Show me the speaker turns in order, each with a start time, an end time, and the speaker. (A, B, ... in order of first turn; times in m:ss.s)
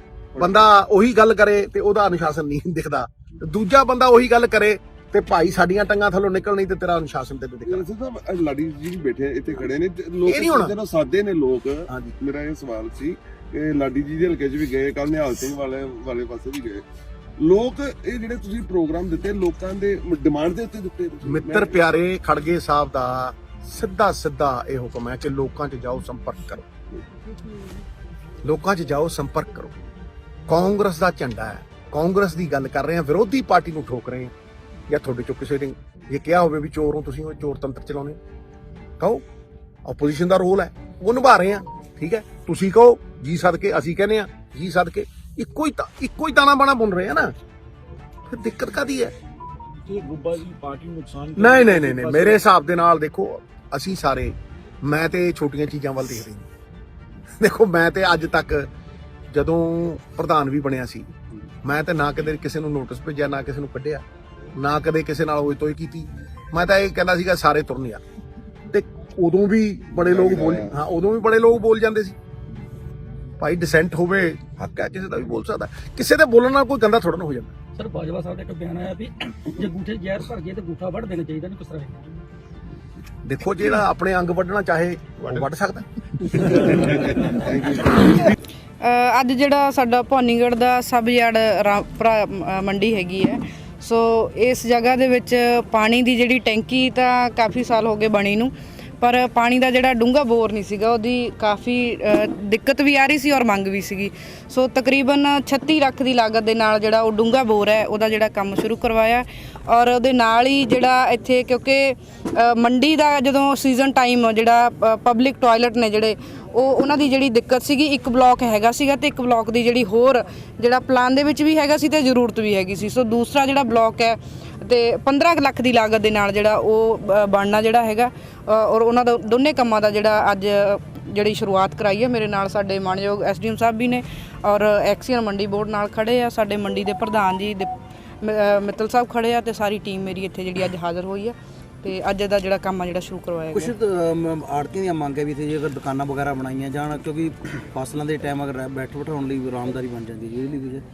0:00.3-0:00.7 A
0:00.4-0:07.9 B
0:07.6-0:16.8 A
0:10.2-0:10.8 B
0:11.9-0:12.1 B
0:17.4-0:21.8 A
0:21.2-0:26.6 B
0:28.4-0:29.7 B
0:30.5-0:34.3 B
0:34.9-0:38.2 B
0:39.8-0:47.3 B
0:48.3-0:49.1 B
0:49.8-0:52.4 C
0:51.4-0:56.4 B
0:57.4-0:58.7 B
0:59.3-1:01.1 B
1:01.6-1:04.0 B
1:04.5-1:08.0 B
1:08.7-1:12.2 B
1:10.0-1:10.7 A
1:13.4-1:17.5 B
1:17.8-1:22.1 D
1:23.2-1:26.7 B
1:26.8-1:28.3 A
1:28.8-2:17.7 E
2:18.2-2:23.8 E
2:23.6-2:30.8 F